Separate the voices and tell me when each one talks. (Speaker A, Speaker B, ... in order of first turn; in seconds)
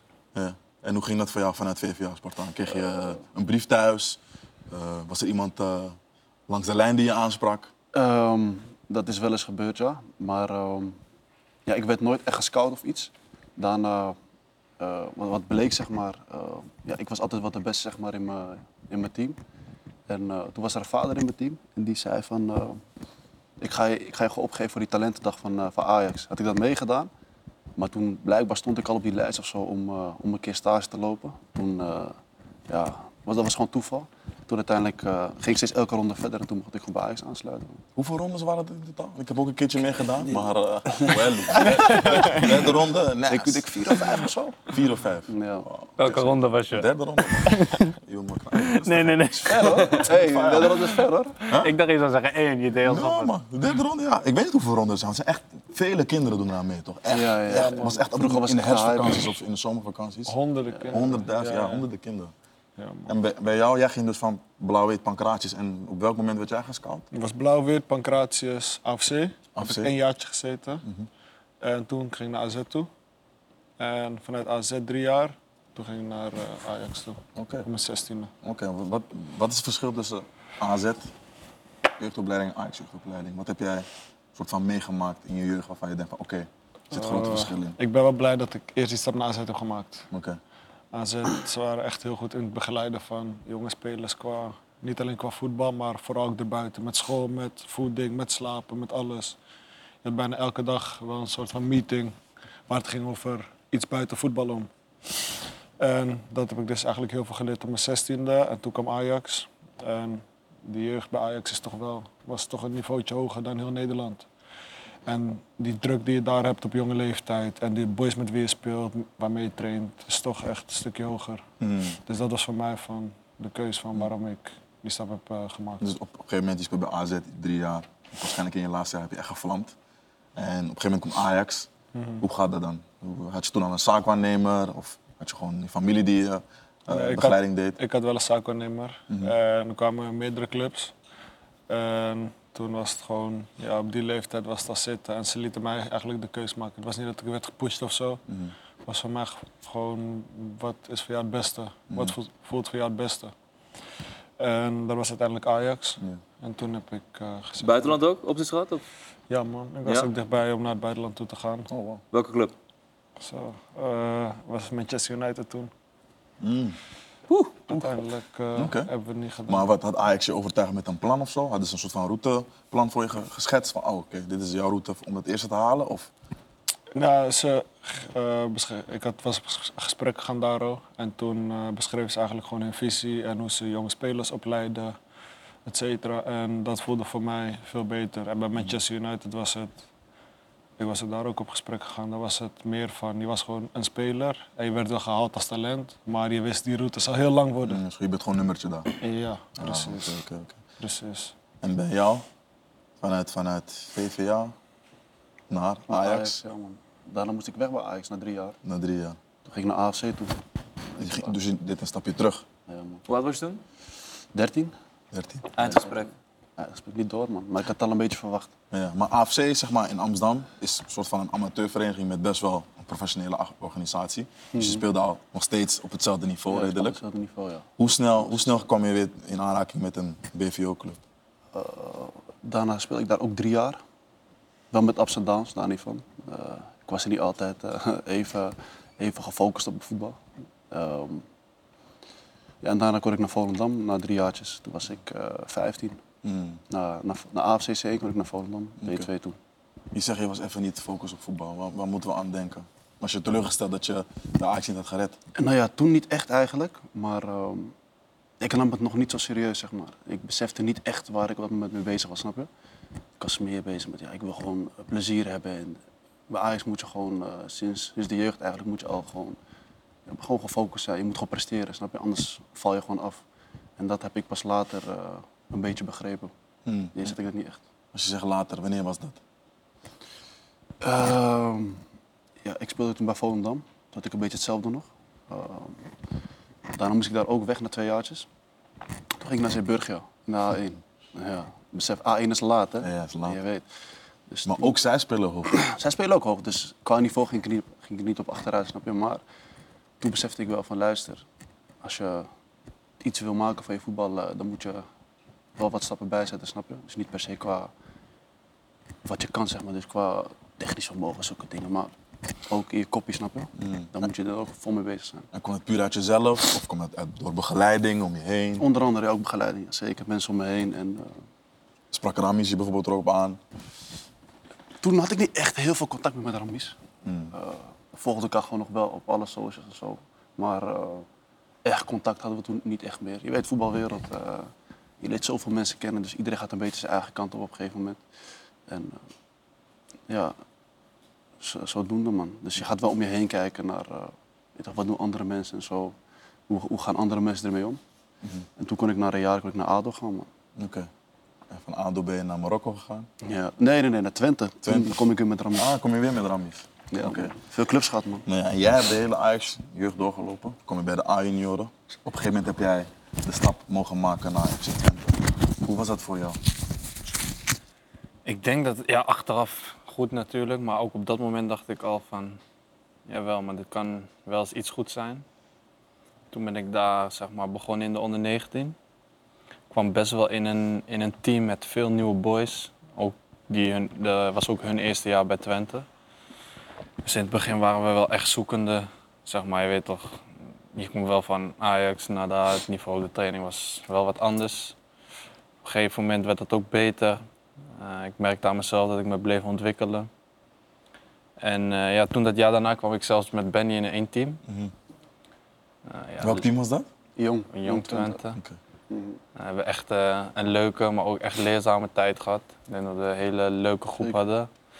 Speaker A: 0.3-6.0, 6.5-7.7, 38.0-50.6, 51.5-51.7, 52.8-62.3, 63.1-67.1, 69.5-69.9, 77.3-77.7, 78.4-81.1, 82.0-87.8, 90.1-90.4, 121.6-122.0, 125.8-129.7, 130.3-131.7, 132.2-137.8, 148.3-148.5, 161.7-162.0, 166.4-166.8, 168.5-168.9, 169.5-176.1, 197.6-198.9, 199.6-200.6, 201.6-202.2, 203.0-204.5, 205.5-206.3, 208.6-209.2, 211.0-212.4, 215.1-215.6, 218.7-227.0, 227.8-231.0, 246.2-246.6, 249.9-255.2, 276.6-277.1, 277.9-279.2, 292.8-293.4, 294.4-295.5, 313.6-313.9, 315.3-318.6, 321.9-323.4, 327.0-327.3, 350.6-350.9, 351.5-353.1, 354.6-355.0, 355.5-357.3, 358.2-366.4, 404.5-404.7, 406.2-406.9
Speaker B: 7.9-11.0, 11.7-14.2, 14.8-19.4, 20.1-22.8, 23.6-27.1, 27.8-32.2, 32.7-37.8, 40.9-42.5, 43.3-44.7, 45.3-45.6, 49.4-51.4, 57.1-59.3, 205.9-208.6, 209.4-210.3, 210.9-211.3, 212.7-213.0, 214.3-214.7, 215.6-216.1, 216.6-218.5, 224.5-224.8, 226.5-228.7, 231.5-233.8, 234.7-240.2, 240.7-241.2, 242.6-246.0, 246.7-249.4, 255.3-257.7, 258.4-262.5, 263.2-269.4, 270.1-273.2, 273.8-276.3, 276.9-277.6, 280.8-281.8, 282.4-285.8, 286.7-288.3, 289.2-293.6, 294.3-294.8, 295.5-299.2, 300.0-301.2, 301.8-302.3, 303.0-304.8, 305.6-307.7, 309.0-311.9, 312.5-315.3, 318.6-321.2, 324.8-326.8, 327.3-331.1, 331.6-338.0, 338.7-339.0, 340.1-340.4, 341.4-345.9, 346.5-347.8, 348.6-350.3, 353.2-355.7, 356.9-358.3, 407.2-408.2, 408.9-409.2
Speaker C: 41.9-42.4, 57.5-58.0, 60.3-61.9, 62.8-63.1, 67.1-70.8, 71.6-72.9, 73.8-78.3, 86.9-90.0, 90.9-99.4, 100.0-102.2, 102.7-104.7, 105.8-114.3, 115.0-121.4, 122.0-125.8, 131.9-132.2, 136.9-140.9, 141.7-148.2, 148.8-153.3, 154.4-158.0, 159.3-161.7, 163.2-165.7, 167.7-169.7, 176.9-184.9, 185.7-189.8, 190.8-197.8, 199.0-200.2, 200.8-201.3
Speaker D: 46.0-47.8, 48.6-50.1, 51.4-53.3, 368.2-372.4, 373.1-375.2, 376.3-378.7, 379.7-385.9, 387.0-390.2, 390.7-394.8, 395.6-397.2, 397.8-400.1, 401.4-404.4, 405.9-406.4, 407.5-408.4, 409.4-414.5
Speaker E: 157.6-158.8, 159.8-160.1, 162.1-162.5, 167.3-167.6, 213.1-213.6, 215.6-216.1